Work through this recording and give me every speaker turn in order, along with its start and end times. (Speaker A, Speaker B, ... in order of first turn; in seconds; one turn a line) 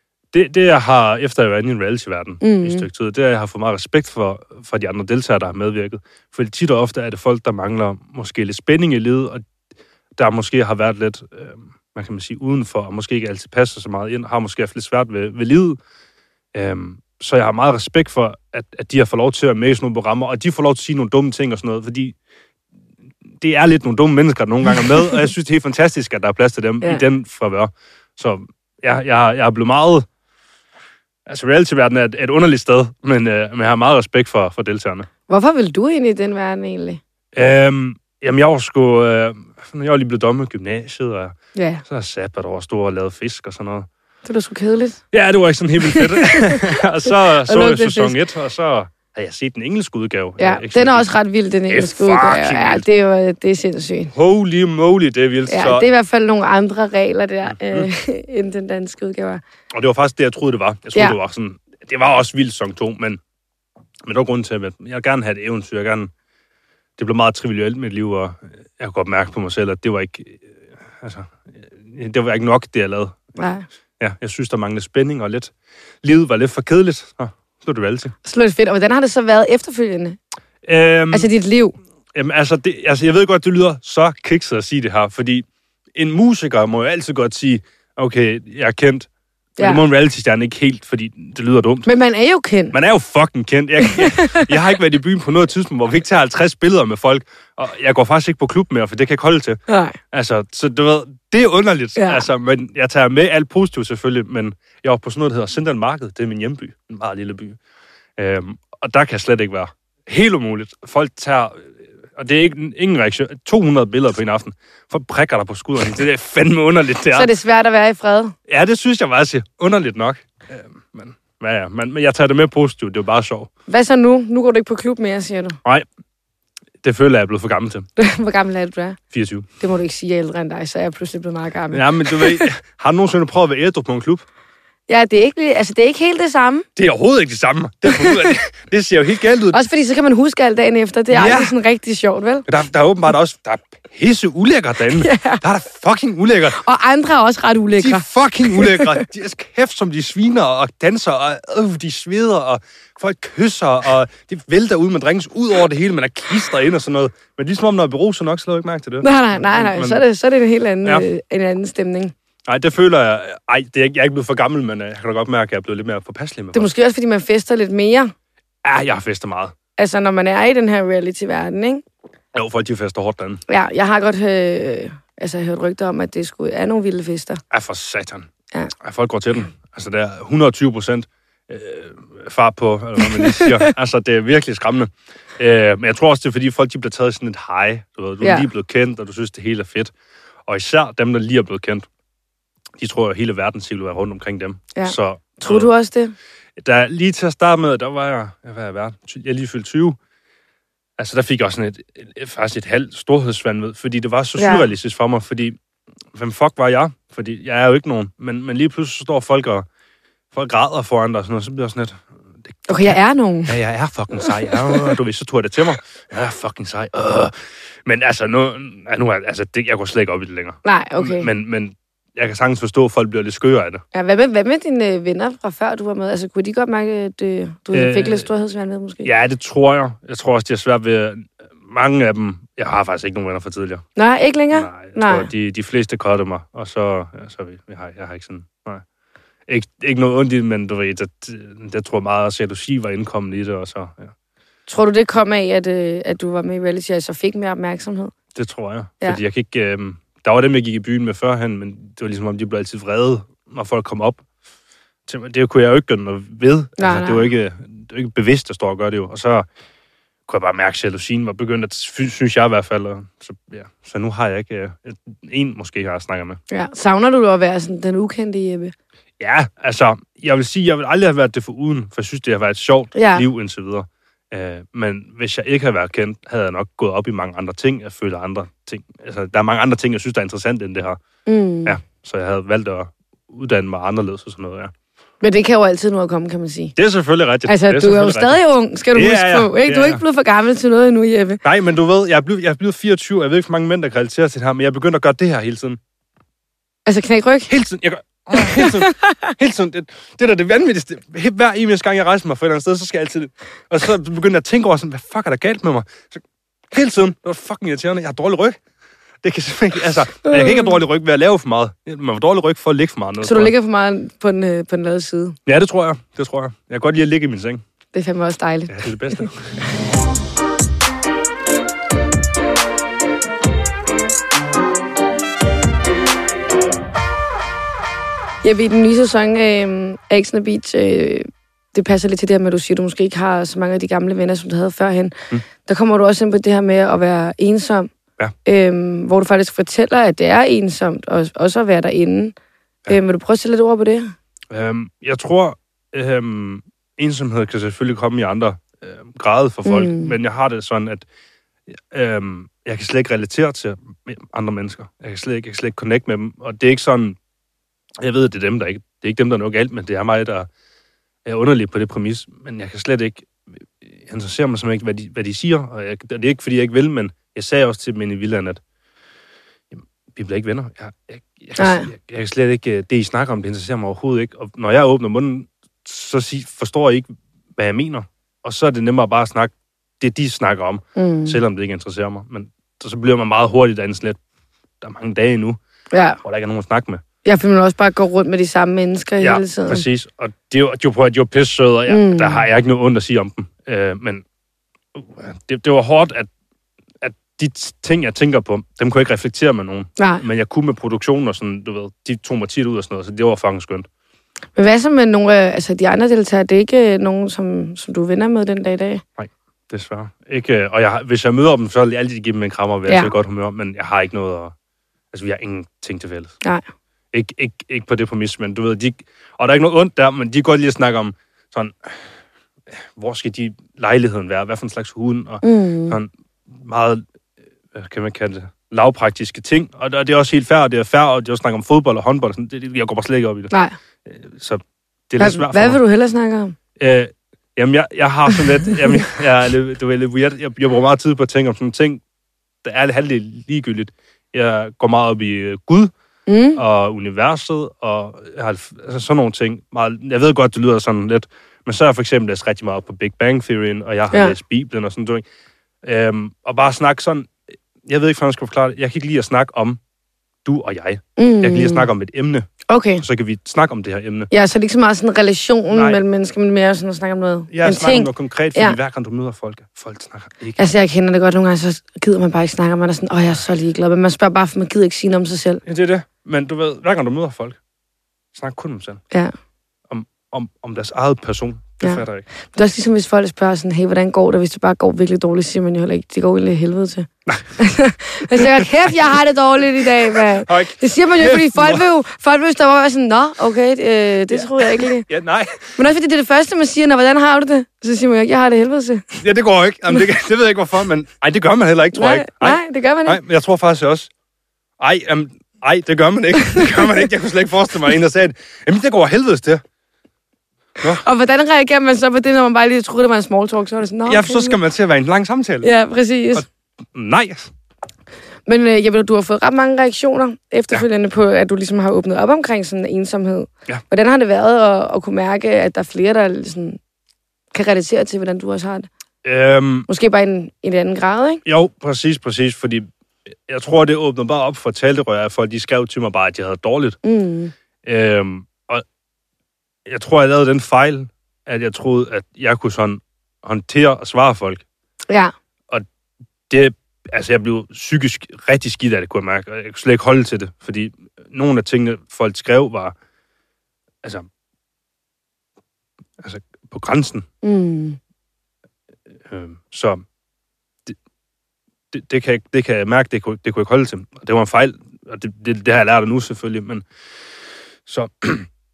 Speaker A: 0.3-9.4
Speaker B: 2.4-2.9
Speaker A: 10.2-15.8
Speaker A: 16.5-22.1
Speaker A: 23.3-30.1
Speaker A: 31.2-35.1
Speaker B: 35.3-37.0
Speaker A: 37.3-41.3
Speaker B: 41.5-41.8
Speaker A: 41.9-43.9
Speaker B: 44.2-45.0
Speaker A: 45.1-51.1
Speaker B: 45.8-48.2
Speaker B: 50.4-54.1
Speaker A: 51.7-52.8
Speaker A: 54.1-55.9
Speaker B: 55.5-59.4
Speaker A: 57.5-57.9
Speaker A: 59.7-63.2
Speaker A: 64.0-66.1
Speaker A: 67.0-73.3
Speaker B: 73.4-73.6
Speaker A: 74.0-75.5
Speaker A: 76.0-78.1
Speaker B: 78.2-80.2
Speaker A: 80.6-81.3
Speaker B: 81.1-81.7
Speaker A: 82.1-91.9
Speaker B: 89.6-89.8
Speaker B: 91.8-92.8
Speaker A: 92.7-99.6
Speaker B: 93.8-94.5
Speaker B: 99.7-100.0
Speaker A: 100.1-107.6
Speaker B: 102.0-102.2
Speaker A: 108.2-117.3
Speaker B: 117.1-118.3
Speaker A: 118.5-123.5
Speaker B: 123.7-125.6
Speaker A: 126.8-127.8
Speaker B: 128.0-129.0
Speaker A: 129.1-129.5
Speaker B: 129.6-132.5
Speaker A: 131.7-134.2
Speaker B: 134.9-136.7
Speaker A: 136.8-139.6
Speaker B: 137.9-138.3
Speaker B: 139.5-142.5
Speaker A: 141.1-141.5
Speaker A: 142.5-146.6
Speaker B: 145.0-145.4
Speaker B: 146.5-149.0
Speaker A: 147.8-160.0
Speaker B: 159.0-162.1
Speaker A: 162.5-166.7
Speaker B: 166.5-168.1
Speaker A: 168.6-169.5
Speaker B: 169.8-171.8
Speaker A: 172.3-173.4
Speaker B: 173.5-177.4
Speaker A: 177.5-178.3
Speaker A: 178.8-189.9
Speaker B: 183.2-183.6
Speaker B: 188.2-188.5
Speaker A: 190.4-191.9
Speaker A: 192.8-195.7
Speaker B: 194.7-196.1
Speaker A: 196.6-200.0
Speaker A: 201.0-205.6
Speaker B: 204.4-204.7
Speaker A: 206.1-209.7
Speaker A: 210.3-217.3
Speaker B: 212.7-213.6
Speaker B: 214.2-214.9
Speaker A: 217.8-223.8
Speaker B: 220.6-221.3
Speaker B: 223.9-229.1
Speaker A: 227.7-228.3
Speaker A: 229.0-233.8
Speaker B: 233.9-235.3
Speaker A: 234.5-238.8
Speaker A: 239.5-244.1
Speaker B: 244.7-248.1
Speaker A: 248.3-254.2
Speaker A: 255.1-259.4
Speaker B: 256.8-257.3
Speaker A: 260.3-266.4
Speaker B: 266.5-268.7
Speaker A: 269.2-281.0
Speaker B: 272.9-273.2
Speaker B: 281.2-281.8
Speaker A: 281.6-284.7
Speaker B: 285.2-286.7
Speaker A: 286.8-288.4
Speaker B: 287.4-291.4
Speaker A: 288.9-290.0
Speaker A: 291.4-295.8
Speaker B: 296.9-297.5
Speaker A: 297.5-308.6
Speaker B: 298.4-299.3
Speaker A: 309.2-313.5
Speaker B: 310.2-310.7
Speaker B: 313.2-315.4
Speaker A: 315.4-317.6
Speaker B: 317.9-319.2
Speaker A: 318.7-319.6
Speaker B: 328.4-337.9
Speaker B: 338.4-342.3
Speaker B: 342.9-344.1
Speaker A: 344.5-351.0
Speaker B: 349.6-350.1
Speaker A: 351.9-357.2
Speaker A: 358.0-360.5
Speaker A: 361.2-368.6
Speaker A: 369.7-384.2
Speaker B: 371.6-371.9
Speaker B: 380.9-381.4
Speaker A: 384.8-385.6
Speaker B: 385.9-386.2
Speaker A: 386.2-387.0
Speaker B: 387.2-389.8
Speaker A: 389.2-394.2
Speaker B: 391.9-392.4
Speaker A: 394.9-396.3
Speaker A: 397.0-403.9
Speaker B: 400.0-400.2
Speaker B: 404.6-409.0
Speaker A: 409.2-414.5
Speaker B: 412.9-413.1
Speaker A: 415.1-416.3
Speaker A: 417.1-422.1
Speaker A: 422.7-427.0
Speaker B: 425.4-425.9
Speaker A: 427.7-433.5
Speaker B: 433.5-433.8
Speaker A: 434.1-435.8
Speaker B: 435.2-436.5
Speaker A: 436.8-442.0
Speaker A: 442.6-445.9
Speaker B: 446.3-446.6
Speaker A: 446.5-455.2
Speaker A: 455.8-457.3
Speaker A: 457.8-459.8
Speaker A: 460.4-462.5
Speaker B: 461.2-461.9
Speaker B: 462.7-463.0
Speaker A: 463.0-464.3
Speaker B: 464.3-468.8
Speaker A: 465.7-466.0
Speaker A: 467.5-470.6
Speaker B: 470.6-475.6
Speaker A: 475.6-477.6
Speaker A: 478.3-479.0
Speaker A: 479.9-482.3
Speaker B: 481.8-495.1
Speaker A: 488.3-488.9
Speaker A: 490.1-491.9
Speaker A: 494.3-495.8
Speaker B: 495.7-499.1
Speaker A: 499.2-504.1
Speaker B: 501.9-503.2
Speaker A: 504.8-509.6
Speaker B: 506.4-506.9
Speaker B: 510.9-514.6
Speaker A: 514.0-515.7
Speaker B: 515.6-516.4
Speaker A: 516.3-517.5
Speaker B: 518.5-526.8
Speaker B: 527.5-528.9
Speaker A: 529.2-529.9
Speaker B: 529.9-531.4
Speaker A: 531.4-532.9
Speaker A: 533.5-537.0
Speaker B: 537.0-537.5
Speaker A: 537.8-538.8
Speaker A: 539.9-544.6
Speaker A: 546.5-552.9
Speaker A: 556.2-557.2
Speaker B: 557.4-558.0
Speaker A: 559.3-560.0
Speaker A: 561.9-566.8
Speaker A: 567.9-568.5